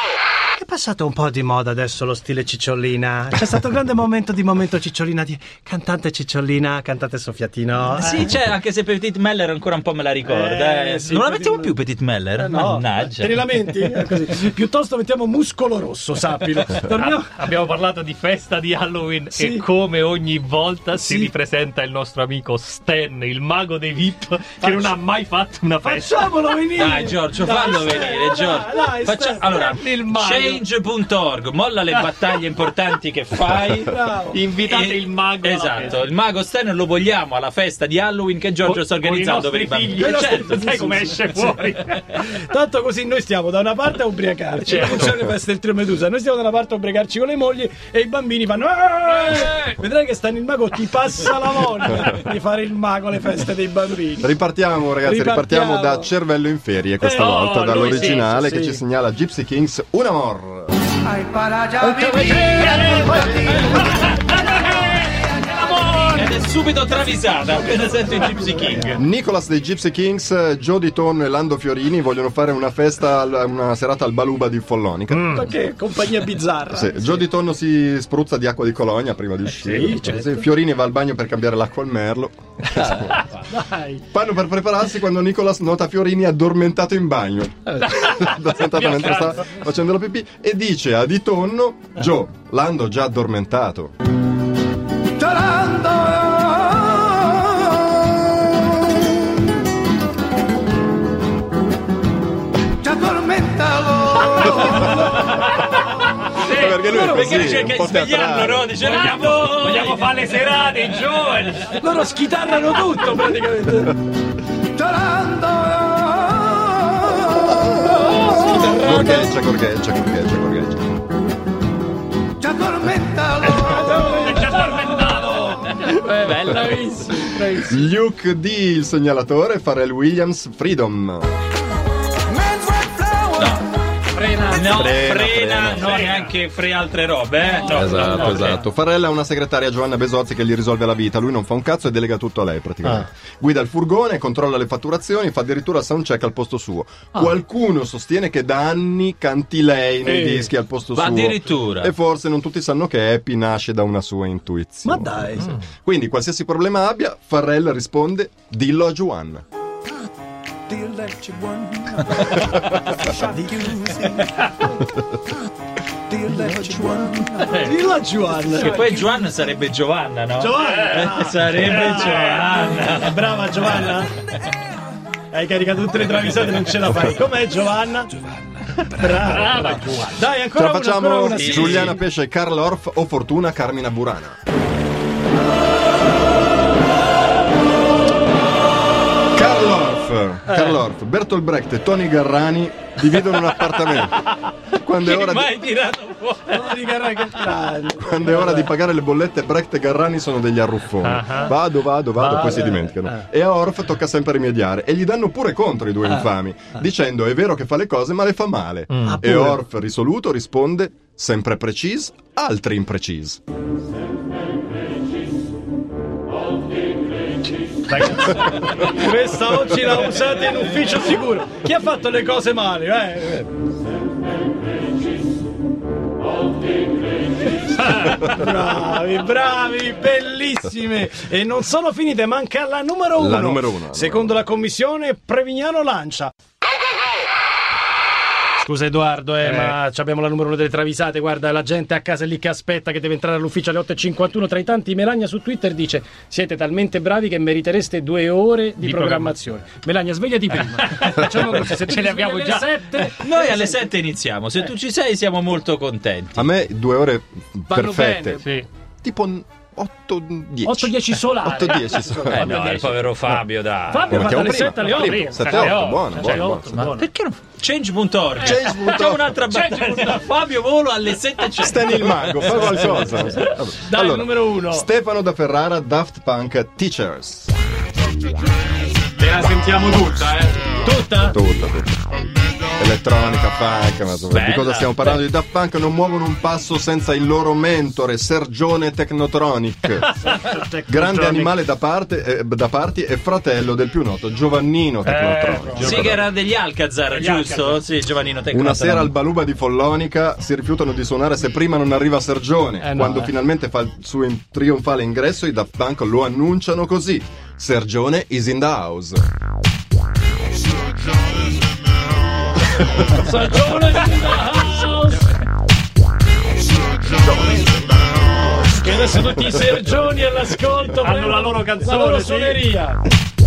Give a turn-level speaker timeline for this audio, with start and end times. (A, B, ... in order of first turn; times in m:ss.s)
0:00.6-0:08.4 A
0:07.9-0:13.4 B
0:10.2-0:11.8 A
0:12.4-0:17.3 A
0:16.9-0:26.4 C
0:19.4-0:19.6 A
0:21.0-0:21.3 A
0:24.6-0:24.9 A
0:25.8-0:29.8 A
0:26.8-0:34.0 B
0:29.6-0:30.6 C
0:33.7-0:34.4 A
0:34.3-0:36.0 C
0:34.6-0:40.7 B
0:38.6-0:42.2 C
0:40.0-0:41.5 A
0:42.1-0:54.3 A
0:44.6-0:45.1 C
0:49.3-0:49.7 C
0:54.2-1:00.7 D
0:55.0-0:56.1 A
0:57.0-0:58.3 C
0:57.9-0:58.8 A
1:01.2-1:04.0 A
1:01.9-1:06.4 C
1:06.1-1:09.0 B
1:08.9-1:15.4 D
1:15.1-1:15.4 C
1:15.3-1:17.2 A
1:16.7-1:23.3 D
1:19.5-1:20.4 A
1:22.8-1:23.2 B
1:23.5-1:24.0 A
1:24.1-1:33.9 D
1:27.9-1:29.6 C
1:35.2-1:37.8 A
1:42.8-1:46.2 A
1:45.4-1:45.6 C
1:46.4-1:47.1 C
1:46.4-1:48.7 D
1:46.9-1:47.5 A
1:46.9-1:50.1 B
1:48.8-1:51.8 C
1:51.7-1:53.9 A
1:54.7-1:59.3 A
1:58.4-1:59.3 B
1:58.5-2:01.0 D
2:02.4-2:05.8 A
2:03.4-2:06.2 C
2:05.7-2:07.3 B
2:06.4-2:07.8 A
2:07.5-2:11.3 D
2:12.5-2:13.4 A
2:13.3-2:13.6 B
2:14.2-2:14.7 C
2:14.2-2:14.5 A
2:14.5-2:18.6 B
2:14.6-2:16.0 D
2:15.8-2:16.3 C
2:17.5-2:18.6 C
2:17.7-2:39.4 D
2:30.1-2:30.5 C
2:30.9-2:31.9 B
2:34.8-2:35.6 A
2:40.7-2:44.7 A
2:46.1-2:49.0 A
2:46.4-2:47.1 D
2:47.4-2:47.7 C
2:48.5-2:53.9 B
2:50.4-2:54.1 A
2:51.6-2:52.5 C
2:55.3-2:58.1 A
2:58.8-3:02.0 A
2:59.1-3:00.2 C
3:00.6-3:04.4 D
3:01.3-3:02.0 B
3:09.3-3:14.3 D
3:10.5-3:10.8 A
3:13.2-3:17.5 B
3:14.8-3:15.5 D
3:16.5-3:18.7 A
3:18.0-3:33.4 D
3:21.0-3:21.5 C
3:22.2-3:23.2 A
3:28.9-3:29.2 C
3:29.0-3:29.6 A
3:37.8-3:43.5 A
3:47.8-3:56.3 A
3:53.2-3:54.4 D
3:58.6-4:13.8 A
3:59.4-3:59.8 C
4:08.8-4:09.3 C
4:10.7-4:13.1 C
4:13.2-4:16.4 B
4:16.4-4:18.4 D
4:17.7-4:18.4 A
4:18.4-4:18.7 C
4:19.0-4:22.6 D
4:20.6-4:23.0 A
4:21.7-4:22.0 C
4:22.3-4:24.3 B
4:22.6-4:23.0 C
4:23.9-4:27.0 A
4:24.1-4:26.9 D
4:24.8-4:26.8 C
4:26.6-4:32.9 B
4:28.4-4:29.3 D
4:29.5-4:30.3 C
4:31.6-4:37.5 D
4:33.8-4:34.9 A
4:39.2-4:41.4 A
4:41.2-4:42.0 D
4:42.8-4:50.1 D
4:44.3-4:45.2 B
4:50.2-4:51.5 A
4:50.9-4:56.2 D
4:55.0-4:56.2 C
4:55.8-4:59.1 B
4:57.1-4:57.8 C
4:58.5-5:09.2 D
5:02.8-5:03.3 A
5:13.0-5:15.4 A
5:18.6-5:23.0 A
5:21.0-5:22.6 C